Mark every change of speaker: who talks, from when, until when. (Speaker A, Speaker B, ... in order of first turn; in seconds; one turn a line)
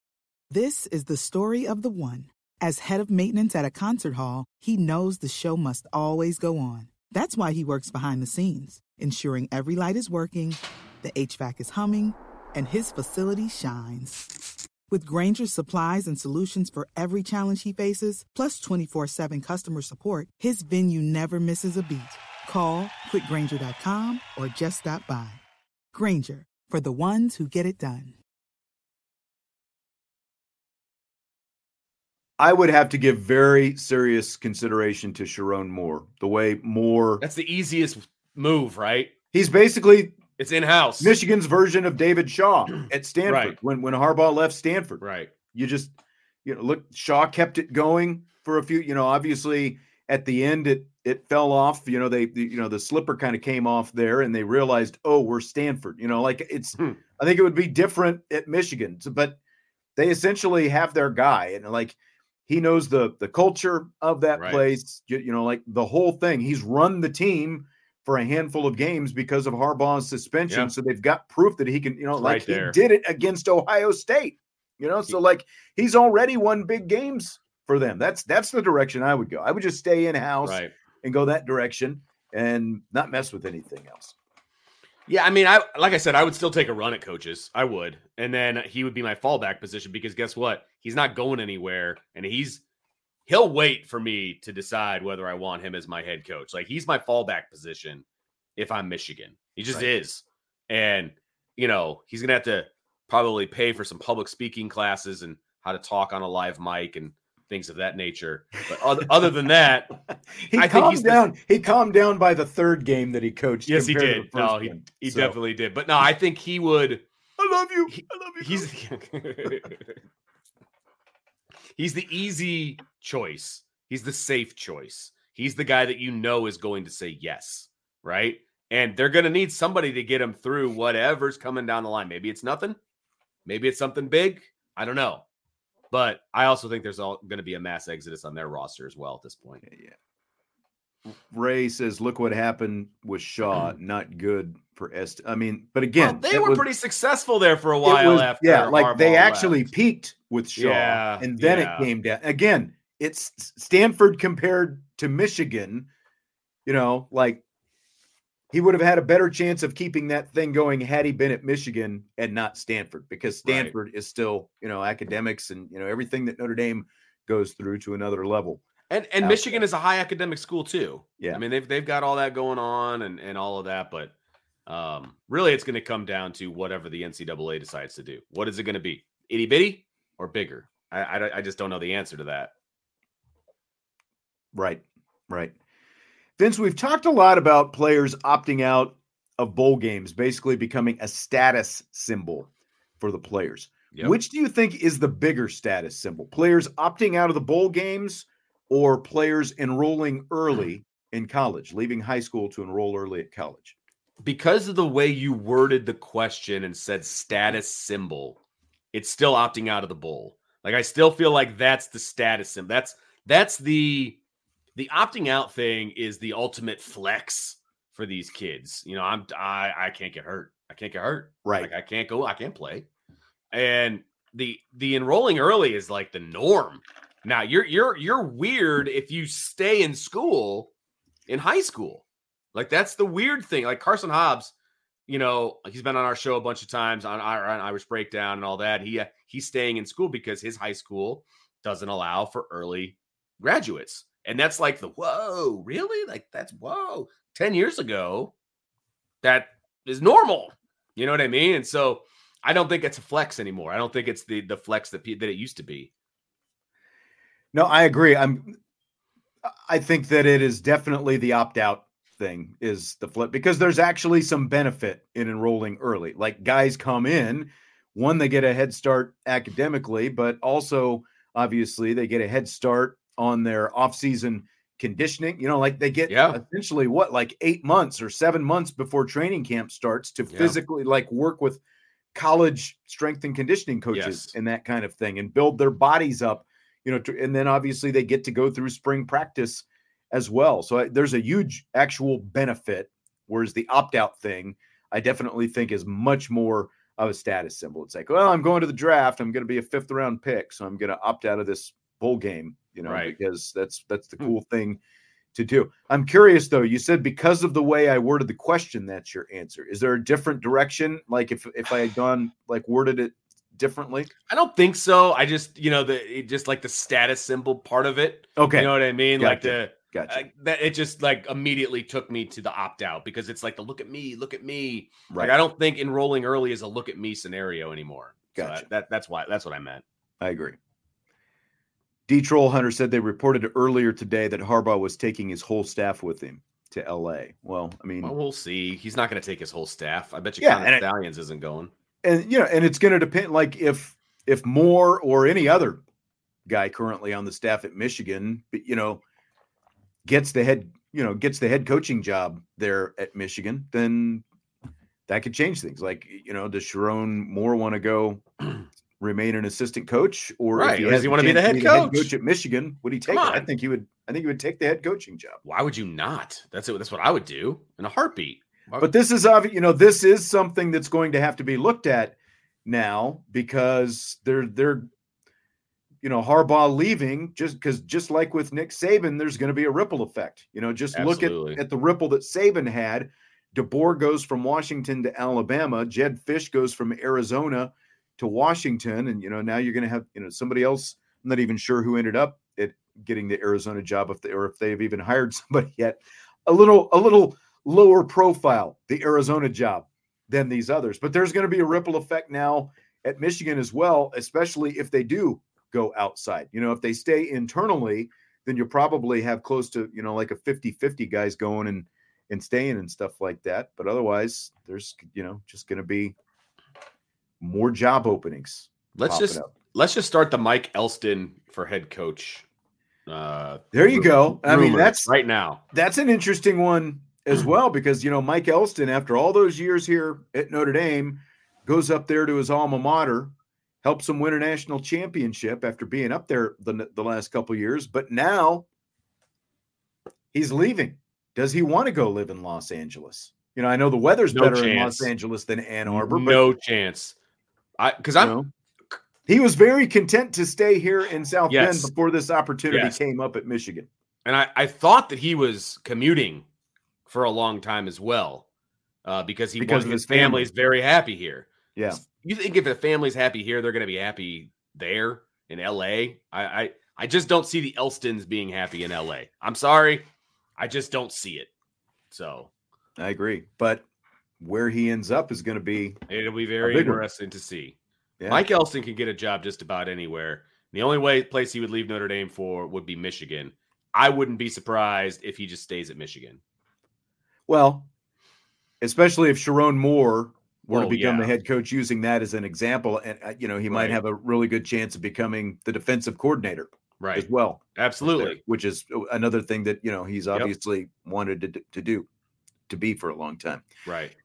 Speaker A: 0.5-14.3
Speaker A: 14.9-25.4
Speaker A: 25.9-28.1
Speaker B: 32.4-37.2
Speaker C: 37.2-39.1
Speaker B: 39.3-40.2
Speaker C: 40.4-41.1
Speaker B: 41.0-45.0
Speaker C: 43.2-43.5
Speaker C: 45.0-45.3
Speaker B: 45.5-45.9
Speaker B: 46.4-59.4
Speaker B: 60.0-62.0
Speaker B: 62.5-84.1
Speaker C: 64.4-64.6
Speaker C: 72.1-72.8
Speaker C: 80.4-80.7
Speaker C: 85.1-92.6
Speaker C: 93.3-98.0
Speaker C: 98.6-110.0
Speaker B: 110.3-115.4
Speaker C: 110.5-111.3
Speaker C: 113.7-117.0
Speaker B: 117.4-118.7
Speaker C: 117.9-120.0
Speaker C: 121.8-132.8
Speaker C: 133.4-135.2
Speaker C: 135.9-139.6
Speaker B: 139.7-139.9
Speaker B: 141.1-146.6
Speaker C: 146.0-149.7
Speaker B: 147.8-155.9
Speaker C: 150.6-151.9
Speaker B: 156.7-157.4
Speaker B: 158.5-168.6
Speaker C: 163.4-163.7
Speaker C: 168.9-174.1
Speaker B: 169.2-169.6
Speaker C: 174.7-182.5
Speaker B: 184.5-185.5
Speaker B: 186.4-192.5
Speaker B: 193.0-203.7
Speaker C: 204.2-208.4
Speaker C: 208.9-214.2
Speaker C: 214.7-222.8
Speaker B: 221.4-221.7
Speaker C: 223.5-230.7
Speaker C: 231.3-234.5
Speaker C: 235.1-248.3
Speaker C: 249.2-255.9
Speaker B: 257.5-258.6
Speaker B: 259.4-281.6
Speaker C: 276.1-276.4
Speaker B: 282.1-304.8
Speaker C: 283.9-284.3
Speaker C: 302.9-303.1
Speaker B: 305.3-314.1
Speaker C: 314.3-329.8
Speaker B: 318.4-320.2
Speaker B: 325.1-325.4
Speaker B: 328.4-328.6
Speaker B: 330.2-330.6
Speaker B: 332.1-338.1
Speaker C: 338.0-341.7
Speaker B: 340.4-340.8
Speaker B: 342.0-345.8
Speaker B: 346.5-349.0
Speaker B: 350.0-354.2
Speaker B: 355.1-358.2
Speaker B: 359.0-365.4
Speaker C: 360.5-362.1
Speaker C: 363.1-363.5
Speaker C: 365.4-368.9
Speaker B: 368.8-374.9
Speaker B: 376.0-416.1
Speaker C: 380.9-381.6
Speaker B: 417.4-419.5
Speaker C: 418.9-422.4
Speaker C: 423.1-425.6
Speaker B: 423.7-425.1
Speaker B: 425.7-438.6
Speaker B: 440.3-446.4
Speaker C: 444.3-445.1
Speaker C: 445.9-447.1
Speaker C: 447.8-448.4
Speaker B: 448.2-448.5
Speaker B: 449.3-453.9
Speaker C: 451.5-451.9
Speaker C: 452.7-453.0
Speaker C: 454.2-456.4
Speaker C: 457.1-458.4
Speaker C: 459.0-470.1
Speaker B: 459.6-460.5
Speaker B: 461.8-462.0
Speaker C: 470.6-471.5
Speaker C: 472.1-472.5
Speaker B: 473.0-473.8
Speaker B: 474.4-476.0
Speaker C: 476.1-486.4
Speaker B: 476.6-477.0
Speaker B: 478.2-478.4
Speaker B: 487.5-487.9
Speaker B: 488.8-502.1
Speaker C: 490.7-491.3
Speaker C: 493.7-494.0
Speaker C: 497.0-498.4
Speaker B: 502.7-503.6
Speaker C: 503.9-504.1